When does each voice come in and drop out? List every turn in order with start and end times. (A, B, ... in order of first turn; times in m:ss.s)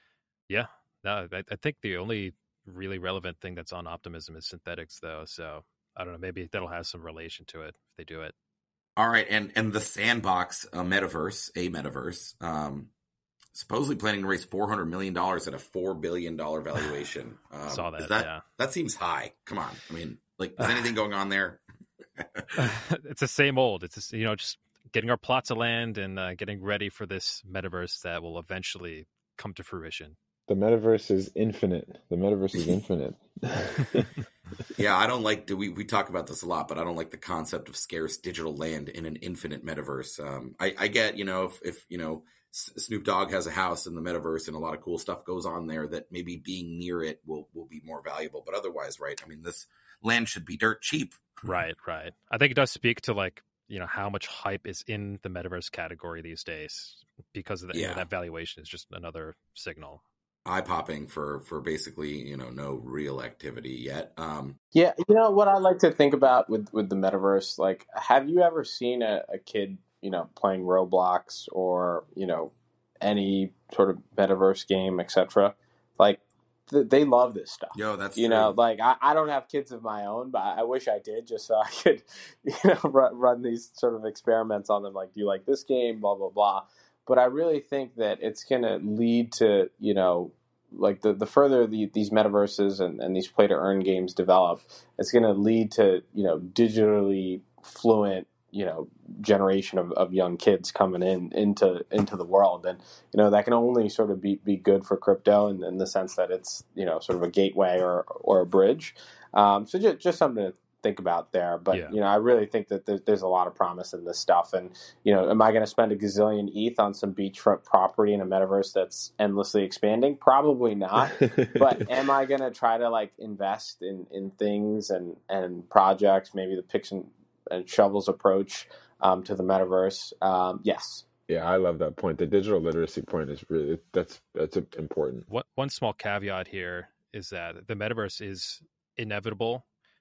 0:00.5-0:08.3 A
0:09.0-0:12.9 B
0:13.5-0:21.6 B
0:17.7-0:18.4 A
0:22.2-0:22.7 B
0:22.6-0:30.2 A
0:30.5-0:34.1 C
0:34.8-0:51.3 B
0:51.4-1:00.0 A
0:57.7-0:58.1 B
1:00.4-1:04.6 B
1:04.8-2:11.0 D
1:17.7-1:18.6 B
1:51.7-1:52.0 A
2:01.1-2:01.8 C
2:11.3-2:15.3 C
2:15.3-2:19.6 A